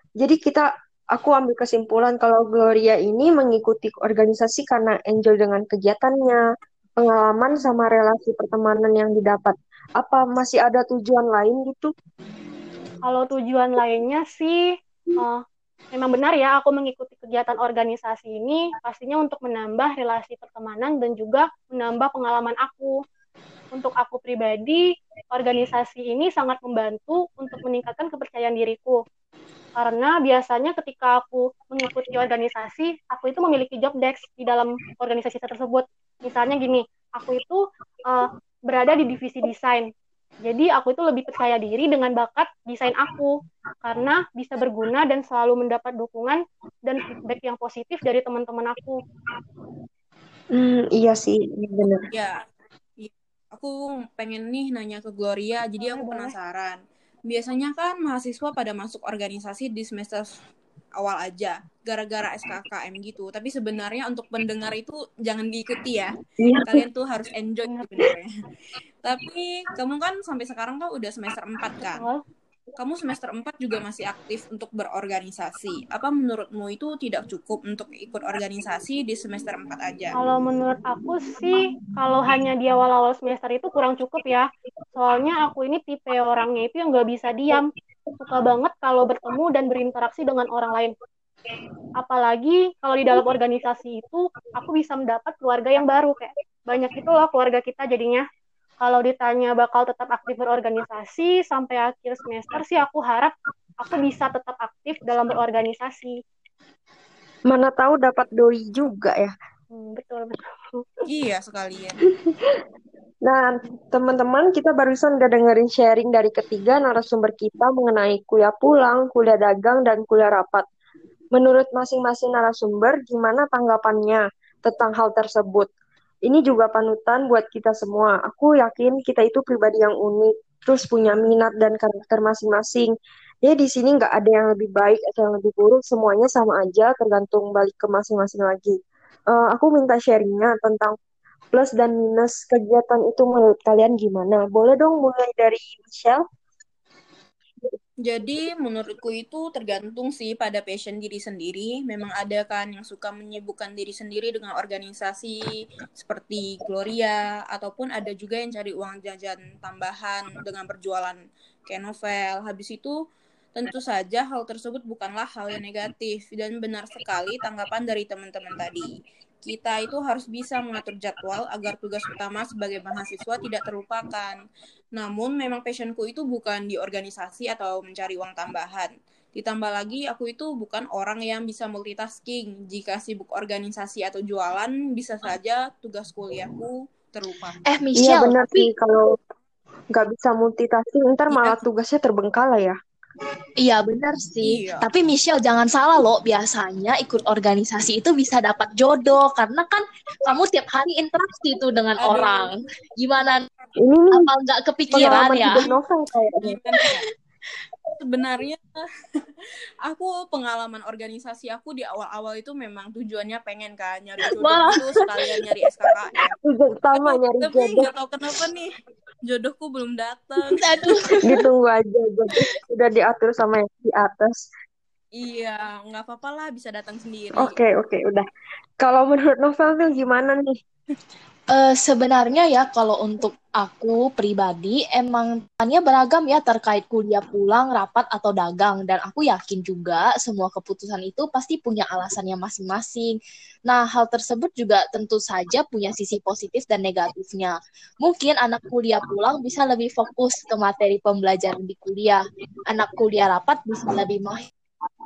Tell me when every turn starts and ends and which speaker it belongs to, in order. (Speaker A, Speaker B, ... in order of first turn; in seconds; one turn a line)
Speaker A: 0.2-6.4
Speaker A: 7.0-11.9
Speaker B: 13.0-14.6
Speaker B: 15.9-22.9
Speaker B: 23.7-29.0
Speaker B: 29.8-39.9
Speaker B: 40.4-49.0
Speaker A: 50.5-52.1
Speaker C: 52.1-52.4
Speaker C: 53.0-60.3
Speaker B: 55.8-56.3
Speaker C: 61.0-66.1
Speaker A: 66.4-66.8
Speaker C: 66.6-68.3
Speaker B: 67.7-68.0
Speaker C: 69.0-72.0
Speaker B: 72.0-72.2
Speaker C: 72.8-80.1
Speaker B: 80.2-87.7
Speaker B: 88.2-90.9
Speaker B: 92.0-98.2
Speaker B: 98.8-106.2
Speaker A: 107.5-109.3
Speaker B: 109.7-110.8
Speaker C: 111.0-112.0
Speaker A: 113.2-120.6
Speaker A: 121.3-125.7
Speaker A: 126.3-132.9
Speaker A: 133.4-138.8
Speaker A: 139.3-140.9
Speaker A: 141.5-146.2
Speaker C: 148.1-162.9
Speaker C: 163.5-168.9
Speaker C: 169.4-174.4
Speaker C: 174.9-187.6
Speaker D: 187.7-188.7
Speaker A: 188.0-189.1
Speaker A: 189.9-192.7
Speaker C: 191.3-191.6
Speaker D: 193.6-203.4
Speaker C: 194.4-194.8
Speaker C: 202.0-202.5
Speaker A: 203.8-204.3
Speaker D: 204.1-205.6
Speaker A: 204.9-206.6
Speaker C: 204.9-205.8
Speaker C: 206.4-207.1
Speaker C: 208.0-208.8
Speaker C: 209.8-216.3
Speaker D: 214.3-215.3
Speaker A: 216.4-217.9
Speaker C: 216.9-218.7
Speaker C: 219.3-221.0
Speaker D: 220.4-221.4
Speaker A: 221.2-224.4
Speaker C: 225.2-227.6
Speaker A: 227.4-228.2
Speaker A: 228.8-230.6
Speaker D: 231.5-243.2
Speaker D: 243.7-254.4